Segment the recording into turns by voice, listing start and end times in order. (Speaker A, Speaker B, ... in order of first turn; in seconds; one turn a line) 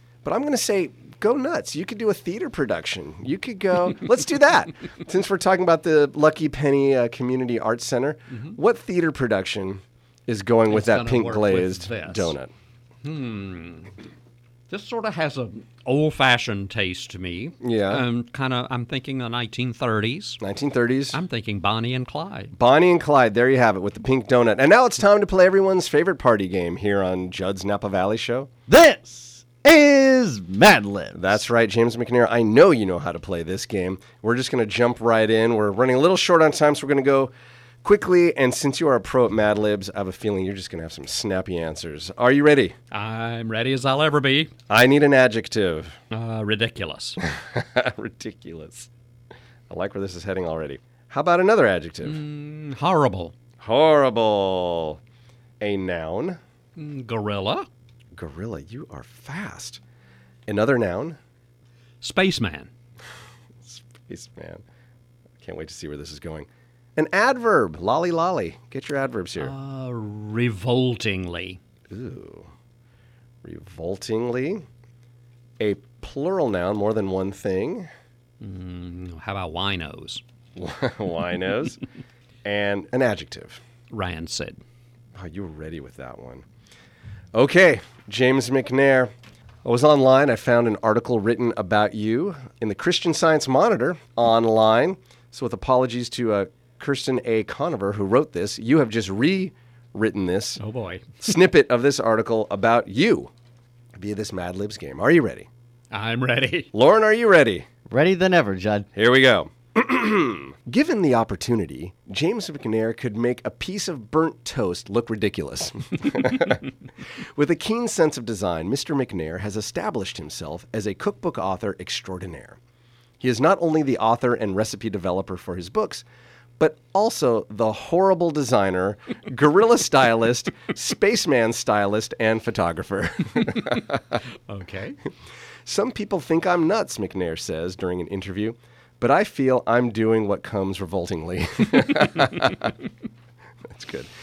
Speaker A: 0.2-12.5
Speaker B: 8.3-8.6
Speaker B: 10.7-12.3
Speaker B: 13.0-13.9
Speaker B: 14.7-20.4
Speaker A: 17.6-18.0
Speaker A: 20.4-21.2
Speaker B: 21.1-22.5
Speaker A: 22.5-28.5
Speaker C: 28.7-31.4
Speaker A: 31.1-37.3
Speaker A: 37.8-42.7
Speaker B: 42.9-44.5
Speaker A: 44.7-46.0
Speaker B: 46.1-47.2
Speaker A: 47.2-48.9
Speaker A: 49.7-52.2
Speaker B: 52.0-53.3
Speaker A: 53.6-55.0
Speaker A: 55.6-56.4
Speaker B: 56.8-57.7
Speaker A: 58.1-59.8
Speaker A: 60.5-61.2
Speaker B: 62.0-62.7
Speaker A: 63.6-64.6
Speaker A: 65.4-69.5
Speaker B: 69.4-71.6
Speaker A: 71.9-72.5
Speaker A: 73.4-74.6
Speaker A: 75.6-77.9
Speaker B: 78.4-80.2
Speaker A: 80.5-81.8
Speaker A: 82.4-83.6
Speaker B: 83.9-84.6
Speaker A: 85.2-86.4
Speaker A: 87.3-89.1
Speaker A: 89.6-100.6
Speaker B: 100.6-101.0
Speaker A: 101.2-103.3
Speaker A: 104.0-105.5
Speaker B: 105.9-106.7
Speaker A: 106.7-107.7
Speaker C: 107.9-108.9
Speaker A: 108.9-116.7
Speaker A: 117.3-122.6
Speaker A: 123.2-126.0
Speaker A: 126.6-134.2
Speaker B: 134.5-135.0
Speaker A: 135.7-142.7
Speaker A: 143.7-144.1